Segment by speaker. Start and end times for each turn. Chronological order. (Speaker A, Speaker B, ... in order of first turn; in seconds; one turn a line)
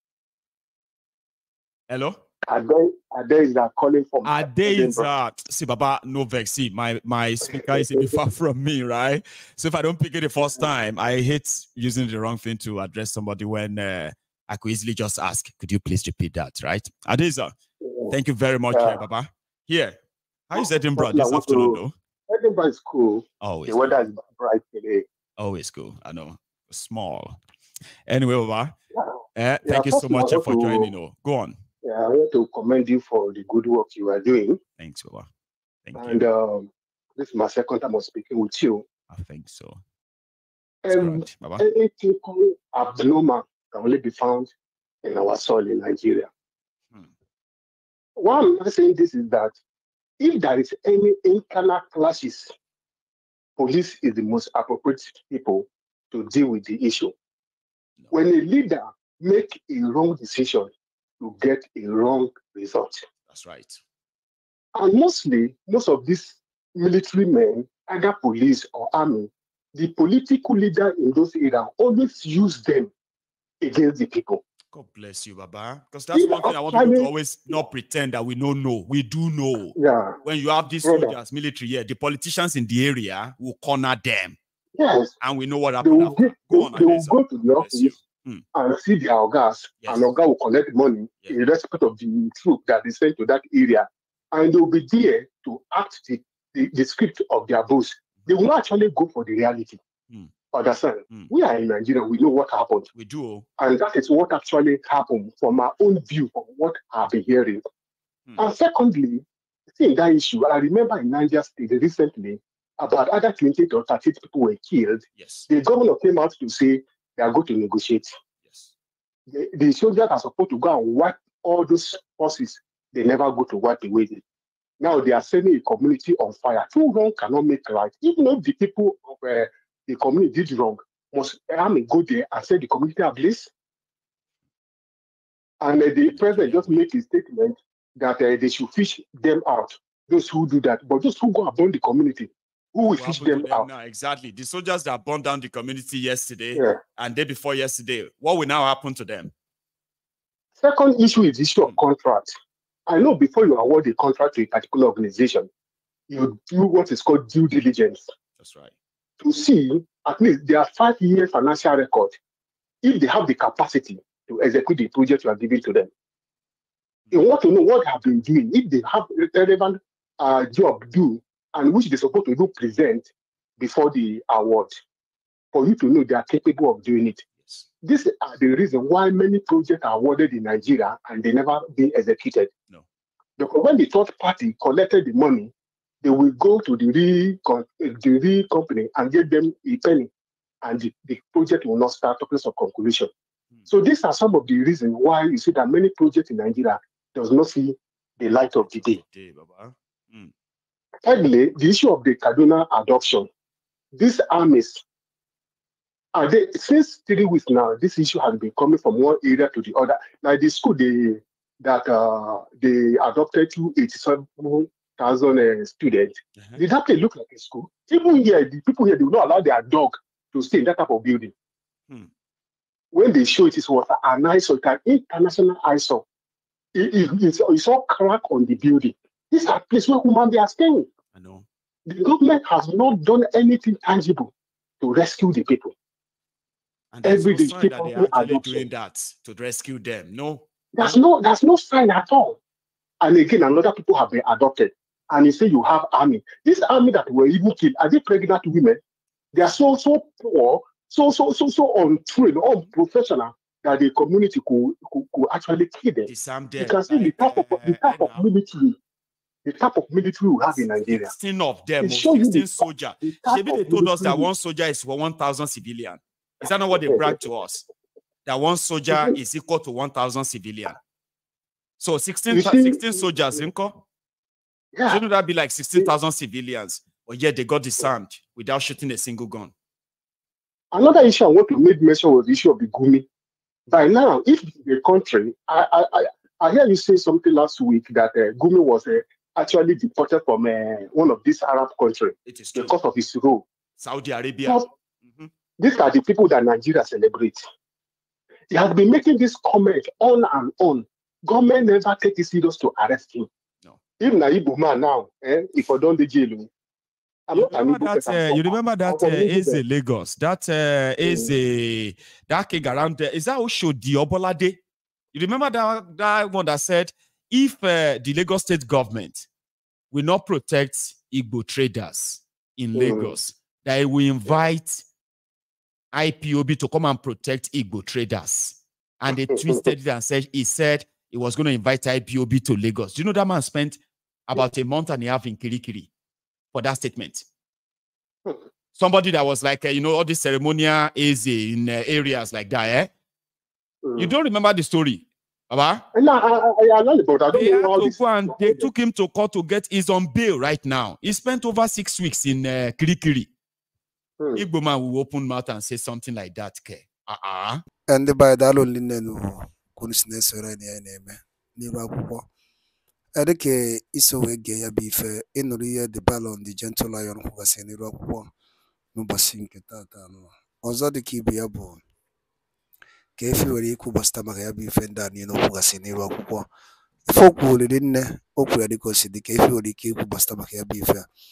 Speaker A: 1.9-2.2
Speaker B: 2.5-5.1
Speaker A: 4.2-17.5
Speaker B: 7.4-8.1
Speaker B: 17.8-18.1
Speaker A: 18.1-19.9
Speaker B: 18.7-19.0
Speaker A: 20.5-21.9
Speaker B: 20.5-25.0
Speaker A: 23.4-24.0
Speaker A: 25.4-27.4
Speaker A: 28.1-28.7
Speaker B: 28.9-30.9
Speaker A: 29.4-31.6
Speaker B: 31.8-34.6
Speaker A: 34.8-35.3
Speaker A: 35.9-36.2
Speaker B: 36.0-38.8
Speaker A: 39.1-39.8
Speaker B: 40.9-44.5
Speaker A: 40.9-41.6
Speaker B: 45.0-46.3
Speaker B: 48.2-49.5
Speaker B: 50.2-52.5
Speaker B: 53.6-57.1
Speaker B: 58.1-63.0
Speaker A: 63.3-63.8
Speaker B: 64.7-72.9
Speaker B: 73.6-74.4
Speaker A: 74.7-84.4
Speaker B: 76.1-77.7
Speaker B: 79.8-80.2
Speaker B: 80.8-81.1
Speaker B: 84.8-85.1
Speaker A: 85.2-88.4
Speaker B: 85.8-87.9
Speaker B: 88.5-99.8
Speaker B: 100.5-102.9
Speaker A: 102.9-103.5
Speaker B: 103.6-107.6
Speaker B: 108.4-109.2
Speaker B: 109.7-118.1
Speaker A: 115.2-115.5
Speaker A: 118.5-118.7
Speaker B: 119.3-124.2
Speaker B: 124.8-133.5
Speaker B: 135.6-143.7
Speaker A: 136.1-136.8
Speaker A: 142.9-149.3
Speaker B: 146.5-146.8
Speaker B: 150.6-152.3
Speaker B: 152.9-155.5
Speaker B: 156.1-158.1
Speaker A: 158.4-158.7
Speaker B: 159.2-162.2
Speaker B: 162.8-165.9
Speaker B: 167.1-174.7
Speaker B: 175.5-177.2
Speaker B: 177.8-182.5
Speaker B: 183.4-185.5
Speaker B: 186.0-190.1
Speaker B: 190.6-193.1
Speaker B: 193.7-199.0
Speaker A: 198.9-200.3
Speaker B: 201.0-203.3
Speaker B: 203.9-204.8
Speaker B: 206.1-221.3
Speaker B: 222.9-226.0
Speaker B: 226.7-230.9
Speaker A: 231.1-231.4
Speaker B: 231.9-235.7
Speaker A: 236.9-241.0
Speaker B: 237.0-238.7
Speaker B: 240.7-242.4
Speaker B: 243.0-248.8
Speaker B: 249.3-258.8
Speaker A: 256.0-258.2
Speaker B: 259.4-261.1
Speaker A: 260.9-267.6
Speaker B: 261.8-264.3
Speaker B: 266.7-267.2
Speaker A: 268.2-270.8
Speaker B: 268.9-269.2
Speaker A: 271.8-273.8
Speaker B: 272.3-273.4
Speaker B: 274.7-275.0
Speaker A: 274.9-279.5
Speaker B: 280.7-283.1
Speaker B: 283.7-293.4
Speaker A: 292.2-292.8
Speaker A: 293.8-295.3
Speaker B: 295.6-297.4
Speaker B: 298.5-303.3
Speaker B: 304.0-306.5
Speaker B: 307.3-309.6
Speaker A: 307.4-314.6
Speaker B: 311.0-311.3
Speaker A: 315.1-319.2
Speaker A: 319.9-324.8
Speaker B: 322.8-323.1
Speaker A: 325.9-335.9
Speaker B: 329.3-329.7
Speaker A: 336.5-337.2
Speaker A: 338.7-342.9
Speaker B: 343.8-344.1
Speaker A: 344.0-345.8
Speaker B: 345.9-348.7
Speaker A: 347.3-353.3
Speaker B: 354.2-354.5
Speaker A: 354.4-357.6
Speaker C: 357.9-362.2
Speaker C: 363.1-368.3
Speaker C: 368.9-371.8
Speaker C: 373.2-376.4
Speaker C: 377.1-381.1